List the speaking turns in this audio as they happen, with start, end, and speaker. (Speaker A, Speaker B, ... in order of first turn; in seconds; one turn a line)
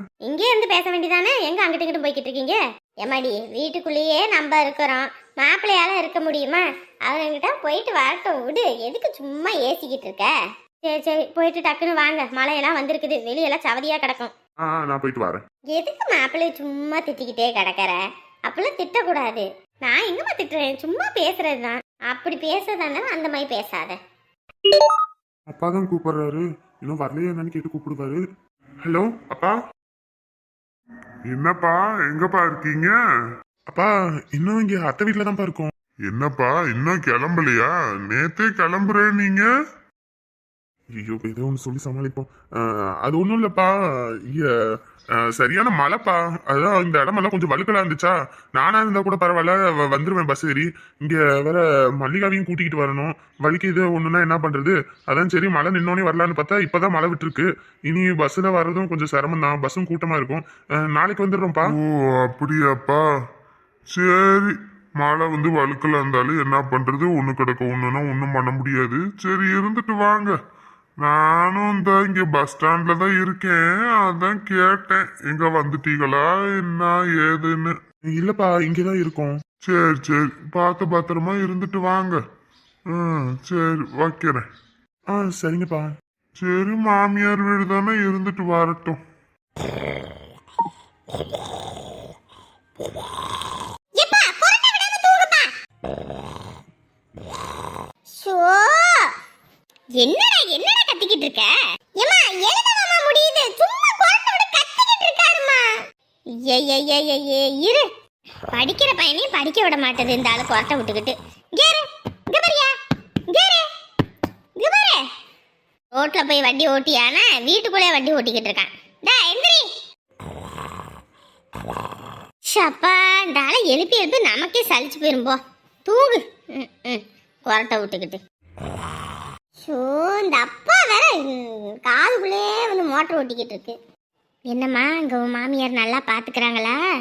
Speaker A: 0.2-14.3
Speaker B: 14.6-15.4
Speaker A: 15.7-24.0
Speaker B: 25.5-28.2
Speaker B: 28.8-29.5
Speaker C: 31.3-32.9
Speaker B: 33.7-35.7
Speaker C: 36.1-39.5
Speaker B: 41.0-43.7
Speaker B: 45.3-61.6
Speaker C: 61.7-63.0
Speaker C: 63.9-70.3
Speaker C: 71.0-77.8
Speaker B: 78.1-79.3
Speaker C: 79.6-82.2
Speaker C: 82.9-84.4
Speaker B: 85.1-85.9
Speaker C: 86.4-89.0
Speaker A: 94.0-95.5
Speaker A: 98.1-99.1
Speaker A: 100.0-105.7
Speaker A: 106.4-107.9
Speaker A: 108.5-112.7
Speaker A: 113.3-113.7
Speaker A: 114.6-115.0
Speaker A: 115.9-119.7
Speaker A: 122.5-128.2
Speaker A: 129.6-133.8
Speaker A: 134.5-136.8